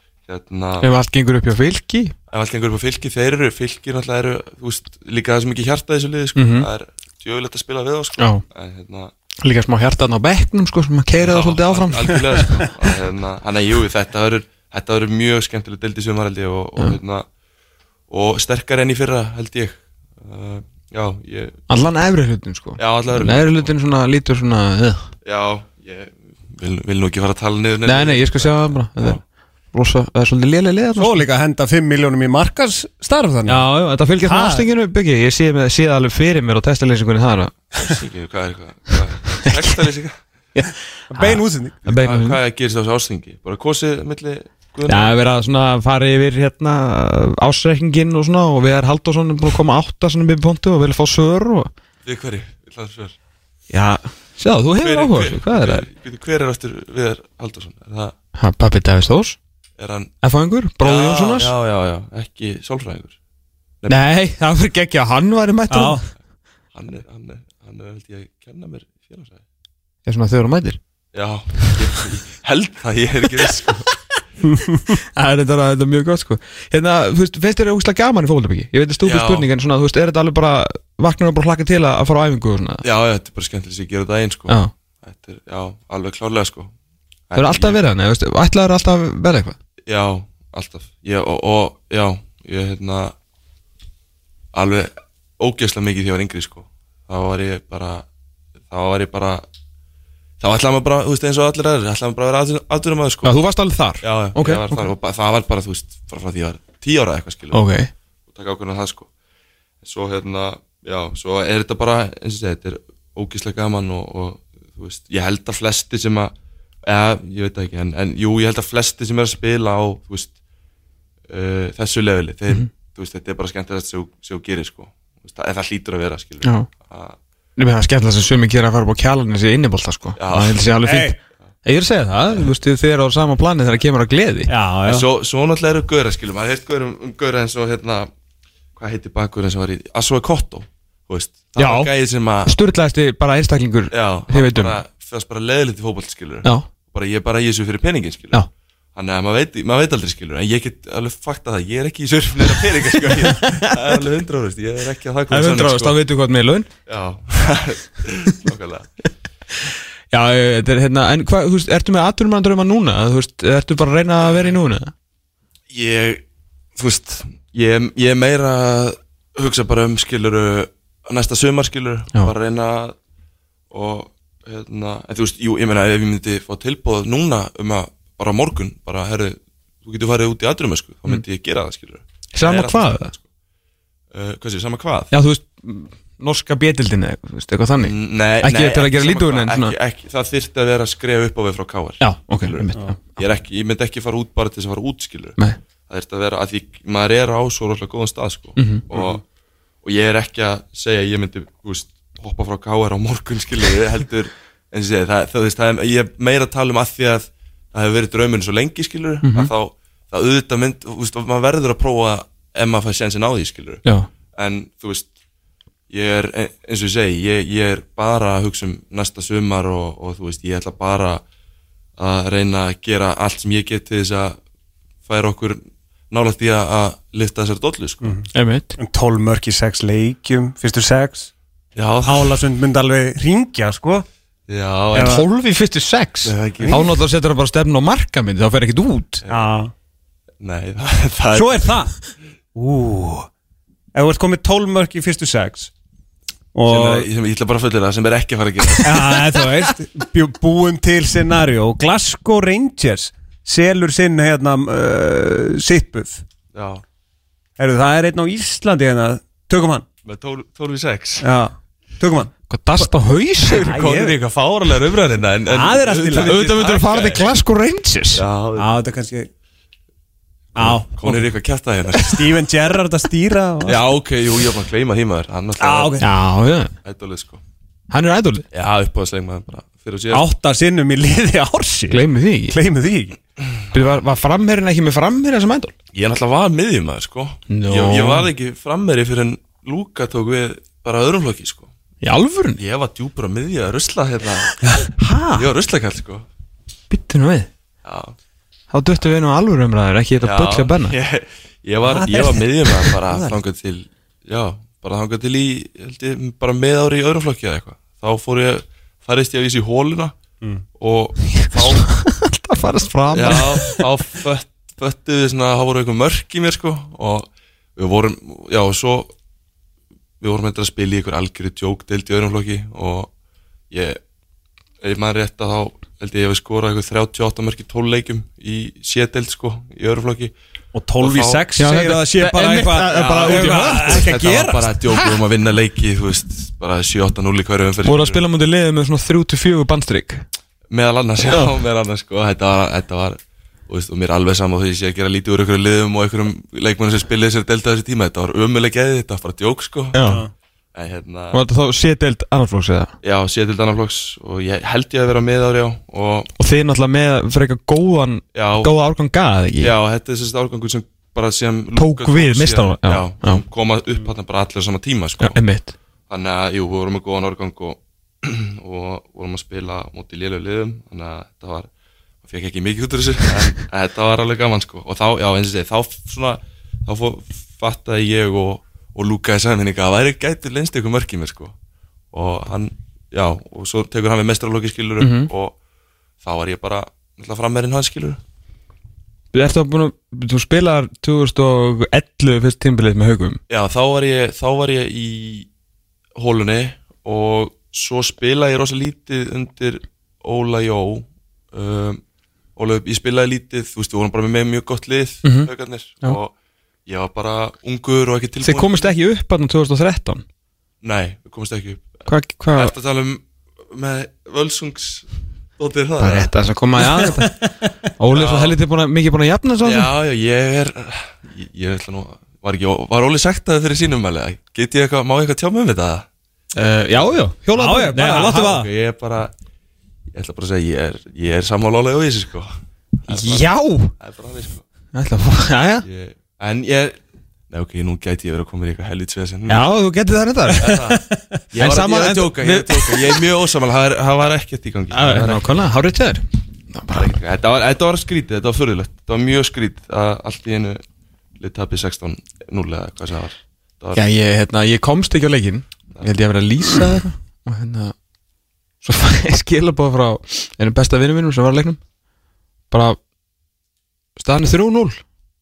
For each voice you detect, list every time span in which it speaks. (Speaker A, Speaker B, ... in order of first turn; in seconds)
Speaker A: 0.3-0.9, 2.3-9.1, 11.2-17.2, 18.1-21.6, 22.8-23.7, 25.2-29.2, 37.8-40.2, 41.9-45.1, 52.0-53.1, 54.8-58.1, 59.8-60.1, 60.8-63.1, 66.7-69.4, 71.1-73.9, 79.0-79.5, 82.8-86.7, 87.3-87.8, 89.8-93.1, 94.5-98.0, 98.7-99.4, 100.4-103.3, 104.0-107.6, 108.3-109.1, 109.8-116.3, 116.8-120.3, 121.3-127.2, 130.2-130.6, 134.8-138.1, 138.8-142.5, 143.9-148.4, 148.9-156.0, 156.9-158.9, 165.7-166.2, 166.8-172.9, 173.7-183.2, 184.1-185.1, 187.8-195.4, 195.9-199.2, 199.8-213.8, 214.3-215.1, 215.9-221.2, 222.0-224.4, 225.0-225.6, 226.1-228.2, 231.8-232.4, 234.5-235.2, 236.2-236.9, 239.2-239.5, 240.4-241.8, 246.7-249.2, 256.5-256.8, 260.0-261.2, 263.5-267.2, 268.1-268.7, 270.9-272.5, 273.6-276.0, 276.8-277.4, 278.5-280.2, 285.9-291.7, 292.6-294.6, 295.3-296.2, 297.8-298.1, 300.2-310.1, 310.8-311.9, 313.1-319.1, 320.2-323.1, 323.7-324.0, 324.8-330.3, 331.0-331.4, 333.0-338.2, 340.7-350.0, 350.7-351.4, 353.0-356.3, 358.3-358.7, 359.6-365.4, 366.1-371.7, 372.2-381.5, 382.1-385.5, 386.2-388.2, 393.5-395.5, 396.1-402.0, 402.6-406.3, 406.9-408.9, 410.8-411.9, 412.5-416.3, 418.1-418.6, 419.6-426.1, 428.1-429.3, 430.1-434.6, 435.8-437.0, 437.5-439.7, 440.6-445.6, 446.9-450.8, 451.4-454.0
Speaker B: 0.8-2.1, 6.3-6.7, 8.2-8.4, 9.4-12.6, 21.7-25.1, 27.9-29.2, 29.7-31.2, 33.5-37.5, 39.4-39.7, 40.5-42.4, 44.9-51.7, 53.7-55.9, 58.4-59.4, 60.2-61.5, 63.9-66.0, 70.0-70.8, 75.0-82.8, 87.3-89.5, 103.2-104.9, 107.5-107.9, 126.4-126.7, 127.6-134.5, 141.6-141.9, 142.4-144.8, 153.2-154.0, 155.3-156.7, 160.1-164.9, 182.3-183.1, 185.1-189.7, 192.0-193.0, 198.6-198.8, 209.2-209.5, 228.3-228.8, 235.0-239.2, 262.5-263.7, 266.5-268.2, 276.0-276.7, 277.9-278.4, 281.9-282.6, 283.7-285.7, 287.5-288.3, 292.0-292.6, 294.5-295.5, 296.9-297.5, 298.7-300.9, 311.4-313.8, 331.6-334.2, 337.8-340.2, 349.9-350.2, 351.3-352.9, 356.4-359.7, 361.8-363.4, 365.2-365.7, 385.0-385.3, 389.3-393.4, 405.2-405.5, 408.4-410.2, 412.1-412.7, 416.0-417.4, 418.0-419.9, 426.5-428.5, 433.1-433.9, 434.9-435.8, 439.5-440.8, 441.5-443.2, 444.9-447.1, 453.9-457.9, 458.8-461.8, 462.7-463.0, 464.2-465.0
Speaker C: 30.9-33.7, 34.2-34.7, 41.1-41.8, 65.7-66.0, 74.5-74.9, 130.8-131.2, 134.5-135.1, 228.0-231.3, 232.1-234.1, 234.9-235.2, 236.6-236.9, 239.3-239.7, 241.3-241.9, 242.5-243.3, 243.9-245.7, 246.5-247.1, 248.8-256.2, 257.6-259.9, 261.2-262.8, 263.5-264.1, 265.5-266.6, 268.6-269.3, 270.5-271.3, 272.0-273.8, 275.6-276.1, 280.1-283.2, 301.9-303.4, 330.7-335.2, 350.0-350.3, 427.6-428.7, 440.7-441.2